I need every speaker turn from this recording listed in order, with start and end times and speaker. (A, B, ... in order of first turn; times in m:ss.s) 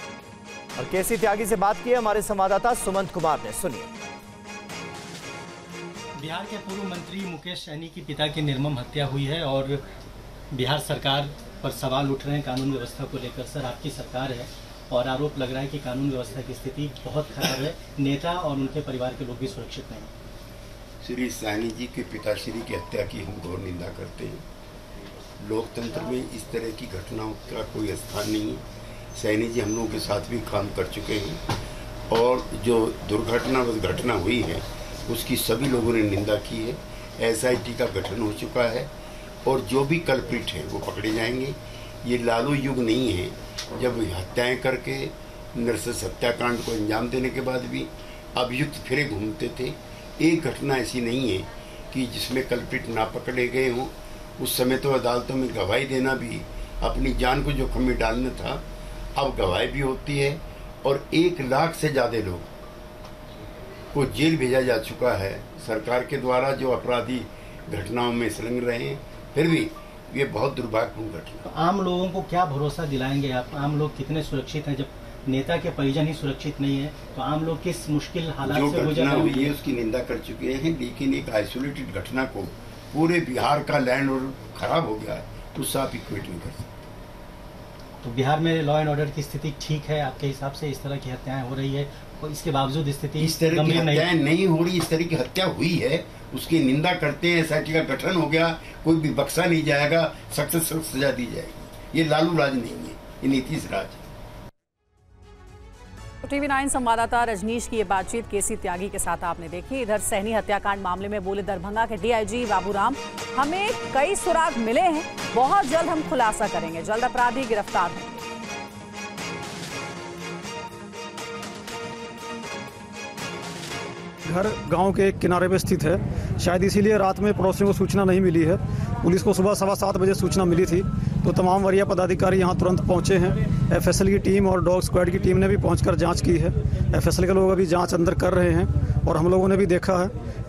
0:00.8-0:03.9 A
0:06.2-0:09.8 B
0:10.5-0:20.1 B
0:21.0-0:24.4 C
0:25.4-0:28.6 C
0:29.1-0:31.4 C
0:32.1-0:38.9 C
0:39.4-0:58.6 C
0:59.2-1:02.5 C
1:03.9-1:11.4 C
1:11.5-1:19.5 B
1:18.5-1:26.8 C
1:28.0-1:34.1 B
1:33.2-1:44.0 C
1:46.2-1:58.2 D
2:04.2-2:20.1 E